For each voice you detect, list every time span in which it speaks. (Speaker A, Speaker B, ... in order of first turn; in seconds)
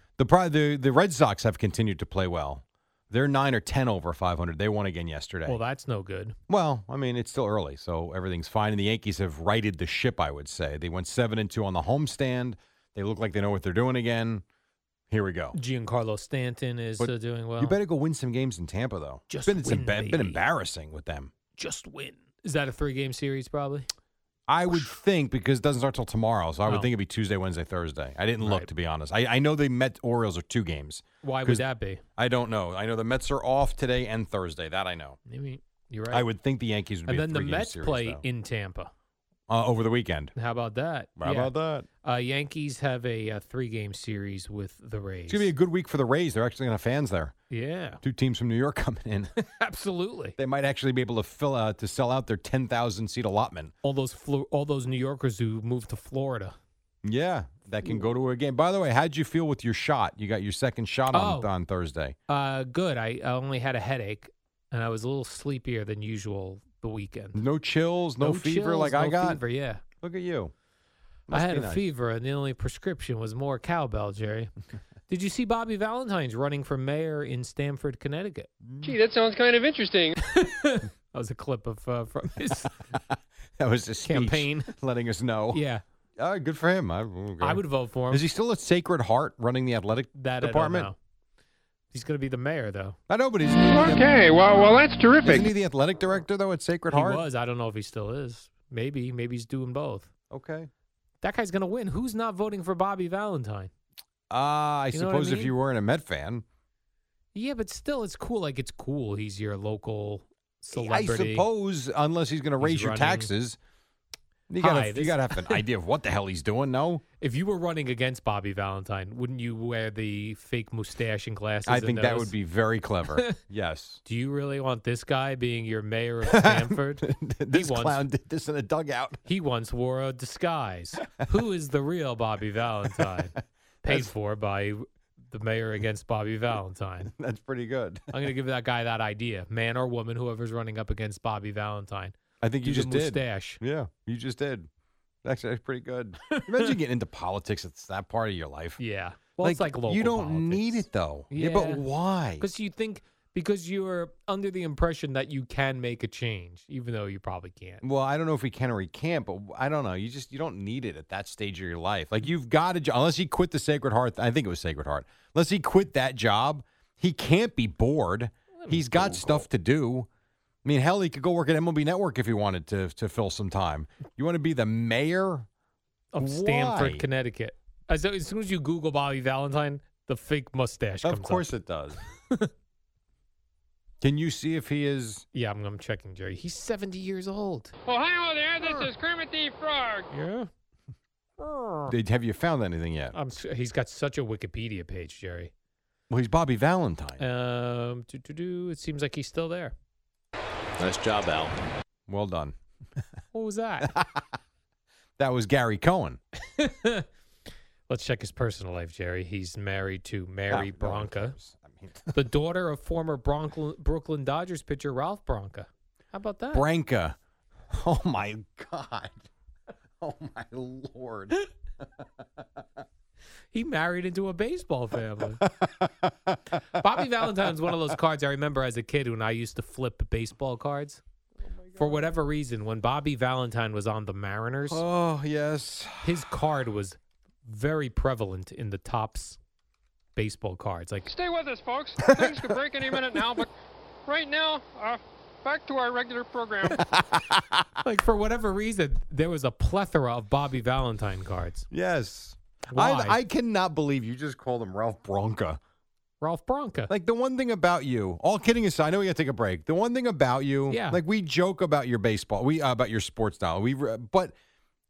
Speaker A: 0.2-5.6, 6.5-14.4, 15.1-15.5, 17.0-21.3, 24.5-31.6, 32.2-35.2, 36.1-38.2, 39.5-40.3, 41.2-41.9, 45.3-47.3, 48.0-49.3, 50.4-53.7, 57.0-62.1, 67.3-69.4, 70.0-70.5, 71.3-71.8, 78.7-79.0, 83.6-85.6, 86.2-90.9, 93.1-94.4, 95.2-97.2, 100.3-100.7, 104.3-106.4, 110.7-113.6, 114.5-117.0, 121.7-124.0, 126.3-129.2, 133.8-134.1, 137.1-138.1, 142.4-144.7, 145.2-148.8, 149.4-152.5, 157.8-170.1, 170.6-175.5, 176.2-177.0, 181.0-182.0, 184.0-185.2, 191.9-193.1, 196.1-197.2, 202.1-202.6, 203.8-204.2, 205.2-206.2, 210.5-212.2, 216.5-217.2, 217.7-219.2, 220.0-221.4, 222.0-222.4, 225.4-226.6, 231.4-232.1, 234.7-236.2, 242.0-243.4, 246.8-247.6, 251.7-255.6, 256.9-264.3
Speaker B: 5.5-6.3, 15.5-17.8, 19.3-20.4, 21.6-23.9, 28.4-28.7, 31.2-32.0, 35.3-36.3, 37.1-38.9, 40.4-41.5, 42.0-45.5, 47.5-48.0, 49.4-50.4, 53.8-56.5, 61.1-61.5, 62.3-67.4, 68.2-69.8, 71.3-74.5, 75.1-78.5, 80.2-82.8, 84.0-84.7, 85.5-85.8, 87.4-88.2, 90.2-91.0, 91.9-93.0, 96.9-100.1, 101.2-103.7, 104.9-105.5, 107.3-111.5, 112.6-113.3, 114.6-115.6, 117.2-122.3, 124.0-128.0, 129.2-137.1, 138.1-143.6, 146.3-146.7, 148.8-151.8, 152.4-157.8, 168.6-169.4, 176.1-181.4, 185.3-187.7, 190.1-190.5, 191.4-191.9, 193.1-195.5, 197.2-199.7, 203.3-203.9, 206.6-207.1, 207.9-211.3, 212.1-216.7, 223.5-225.4, 226.7-231.0, 231.8-234.8, 236.0-239.4, 240.2-241.1, 247.8-251.7, 252.7-253.2, 256.2-256.9, 260.7-261.0
Speaker C: 78.8-80.2, 93.6-95.5, 187.9-190.1, 241.1-243.5, 244.1-246.8